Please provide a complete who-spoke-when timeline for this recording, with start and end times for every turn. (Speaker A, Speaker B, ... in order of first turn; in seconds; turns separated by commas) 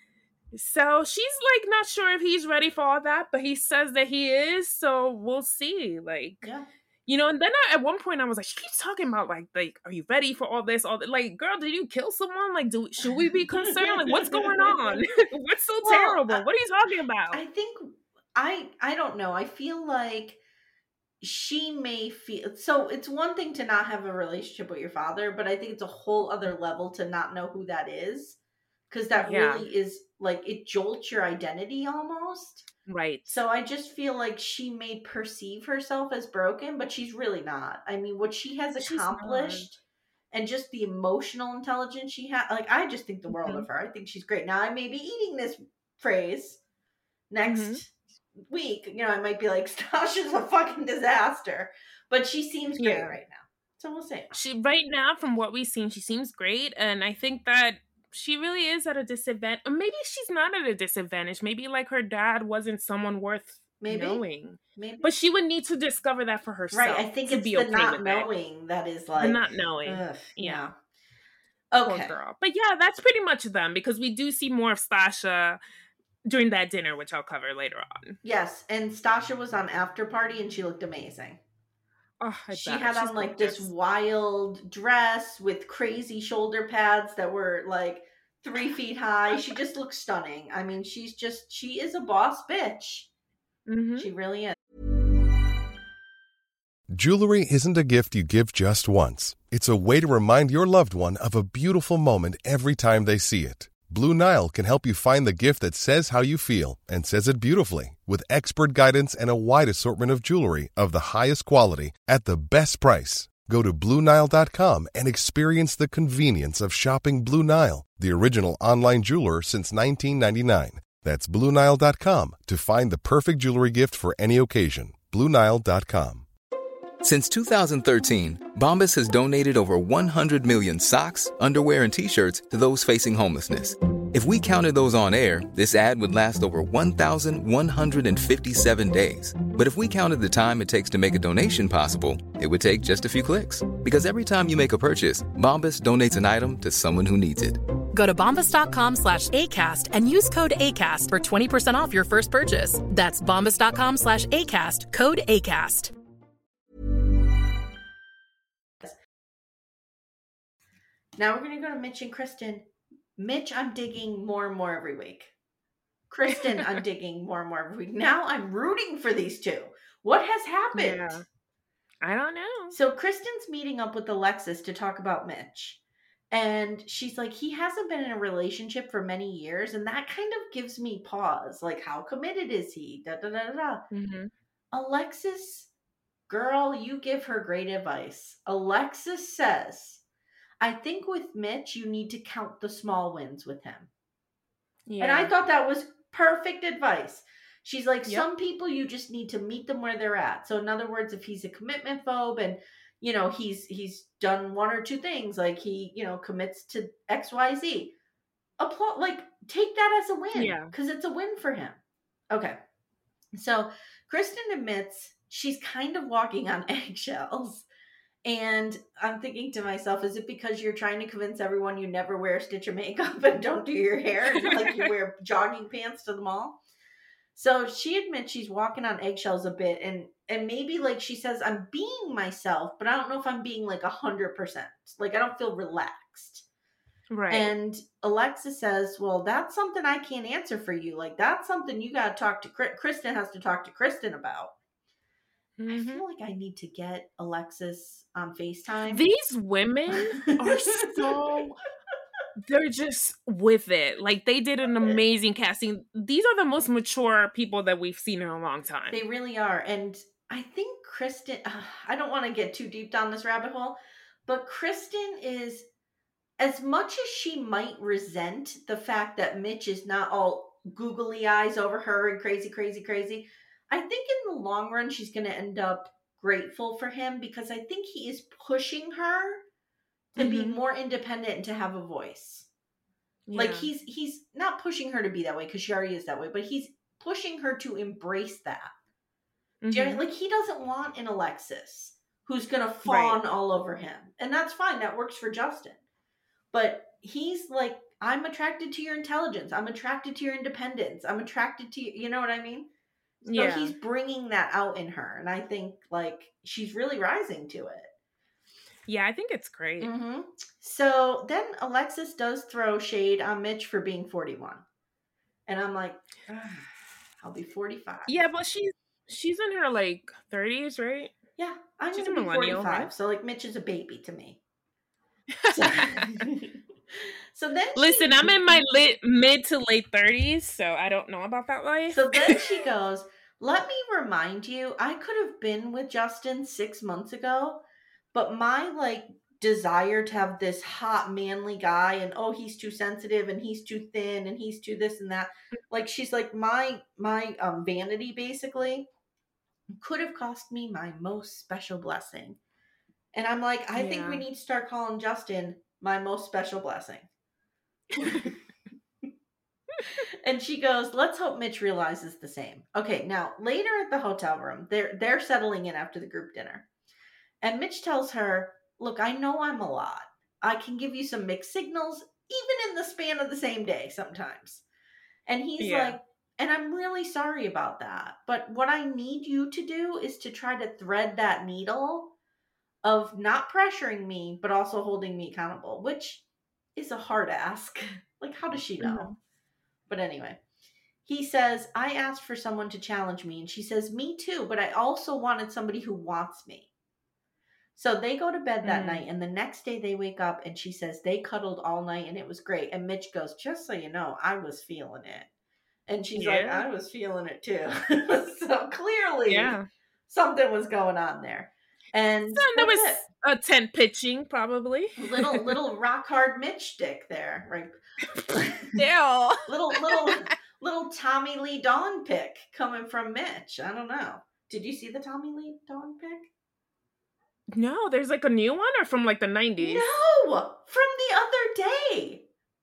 Speaker A: 0.5-6.5, Speaker B: 6.4-6.7, Speaker A: 7.1-17.4, Speaker B: 13.0-14.9, Speaker B: 15.8-16.4, Speaker B: 17.3-20.4, Speaker B: 21.2-28.4, Speaker B: 28.9-32.7, Speaker A: 29.2-29.7, Speaker A: 32.9-33.3, Speaker B: 33.2-39.8, Speaker A: 38.8-39.7, Speaker B: 40.3-46.6, Speaker A: 43.3-43.6, Speaker B: 47.3-54.3, Speaker A: 47.4-47.8, Speaker A: 52.8-53.1, Speaker A: 54.3-68.3, Speaker B: 63.8-64.2, Speaker B: 64.8-65.1, Speaker B: 66.7-70.7, Speaker A: 69.2-70.7, Speaker B: 71.7-72.1, Speaker A: 71.8-75.6, Speaker A: 76.2-78.2, Speaker B: 78.2-81.4, Speaker A: 82.2-83.7, Speaker B: 82.5-93.1, Speaker A: 93.7-94.1, Speaker B: 94.0-94.5, Speaker C: 96.9-126.2, Speaker D: 127.0-147.6, Speaker E: 147.9-155.9, Speaker B: 161.2-165.3, Speaker B: 166.1-171.2, Speaker A: 170.7-171.2, Speaker A: 172.0-172.8, Speaker B: 172.7-175.8, Speaker B: 176.3-183.8, Speaker A: 183.9-184.3, Speaker B: 184.7-185.7, Speaker B: 186.3-190.0, Speaker B: 190.6-193.9, Speaker A: 194.9-195.3, Speaker B: 195.0-207.9, Speaker B: 208.6-212.6, Speaker A: 210.3-210.7, Speaker B: 213.3-217.7, Speaker B: 218.2-226.6, Speaker A: 224.3-224.8, Speaker B: 227.3-236.4, Speaker A: 237.1-237.5, Speaker B: 237.3-244.5, Speaker A: 245.6-246.0, Speaker B: 245.7-249.0, Speaker A: 248.9-251.6, Speaker B: 250.3-251.1, Speaker A: 252.4-259.0, Speaker B: 258.9-265.6, Speaker B: 266.4-279.4, Speaker B: 280.1-282.5, Speaker A: 280.2-280.6, Speaker A: 283.3-283.7, Speaker B: 283.3-288.7, Speaker A: 289.6-290.0, Speaker B: 289.7-295.8, Speaker A: 292.8-293.2, Speaker B: 296.5-302.7, Speaker A: 303.2-303.7, Speaker B: 303.3-307.9, Speaker A: 308.9-309.9, Speaker B: 309.8-314.6, Speaker B: 315.5-316.7, Speaker B: 317.2-318.1, Speaker A: 318.1-321.1, Speaker B: 321.4-324.4, Speaker A: 321.9-322.9, Speaker A: 325.4-326.2, Speaker B: 325.5-328.6, Speaker A: 327.8-332.4, Speaker B: 331.9-348.9, Speaker B: 349.8-352.4, Speaker B: 353.1-357.1, Speaker A: 353.7-354.2, Speaker B: 358.0-358.3, Speaker B: 360.2-366.6, Speaker B: 367.4-374.6, Speaker B: 375.2-382.1, Speaker A: 375.6-376.0, Speaker B: 382.8-386.2, Speaker B: 386.7-389.1, Speaker A: 388.8-389.2, Speaker B: 389.9-390.4, Speaker B: 391.1-396.7, Speaker B: 397.8-405.3, Speaker A: 398.6-399.0, Speaker B: 405.9-409.6, Speaker A: 406.1-406.6, Speaker A: 409.3-409.6, Speaker B: 410.1-413.0, Speaker A: 412.3-415.5, Speaker B: 415.0-418.8, Speaker A: 418.7-420.3, Speaker B: 419.5-426.3, Speaker A: 427.5-429.9, Speaker B: 429.6-432.2